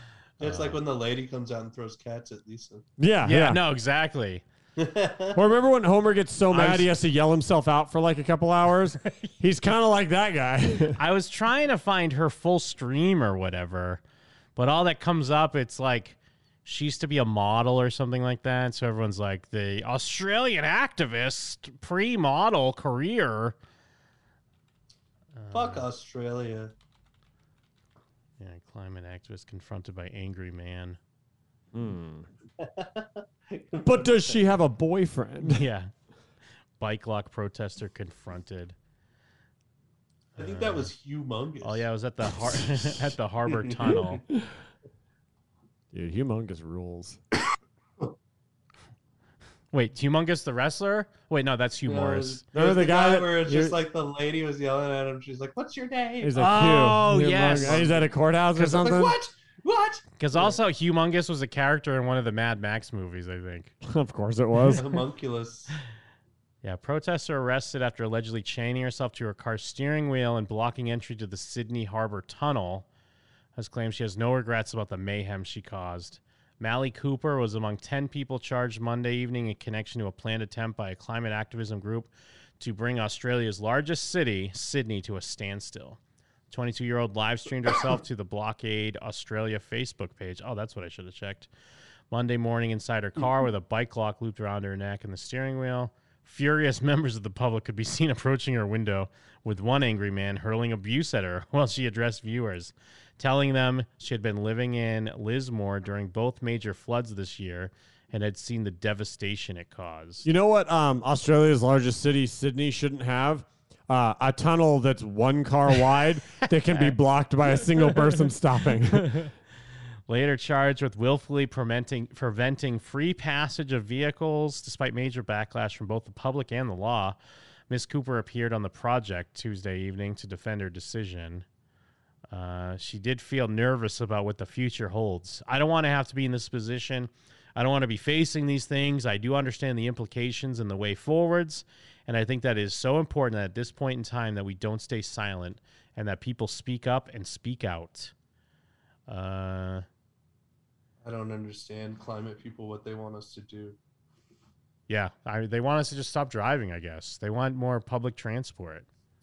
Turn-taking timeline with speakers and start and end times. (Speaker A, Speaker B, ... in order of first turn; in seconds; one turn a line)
Speaker A: 0.4-2.9
Speaker B: 0.4-0.8
Speaker C: 3.0-3.6
Speaker B: 3.2-4.4
Speaker A: 4.8-5.4
Speaker C: 5.3-11.0
Speaker B: 6.5-6.9
Speaker B: 10.9-14.0
Speaker B: 14.6-23.6
Speaker B: 25.4-25.9
Speaker A: 25.5-26.7
Speaker B: 28.4-31.0
Speaker C: 31.7-32.3
Speaker A: 32.6-34.6
Speaker C: 33.8-35.6
Speaker B: 35.4-35.9
Speaker B: 36.8-38.8
Speaker B: 40.4-40.9
Speaker A: 40.4-41.9
Speaker B: 41.6-44.2
Speaker A: 42.8-44.0
Speaker C: 45.9-47.2
Speaker B: 49.7-52.4
Speaker A: 51.9-56.5
Speaker C: 52.5-53.8
Speaker C: 56.2-59.2
Speaker B: 56.4-57.9
Speaker A: 57.5-60.6
Speaker B: 60.2-63.8
Speaker C: 63.8-64.8
Speaker A: 64.7-65.7
Speaker B: 66.6-72.9
Speaker B: 73.5-86.0
Speaker B: 86.5-91.5
Speaker B: 92.1-110.3
Speaker C: 110.2-119.2
Speaker B: 116.4-117.0
Speaker B: 117.5-118.3
Speaker B: 120.1-127.2
Speaker B: 127.7-131.4
Speaker B: 132.3-148.1
Speaker B: 149.1-149.9
Speaker A: 151.0-153.8
Speaker B: 154.9-158.9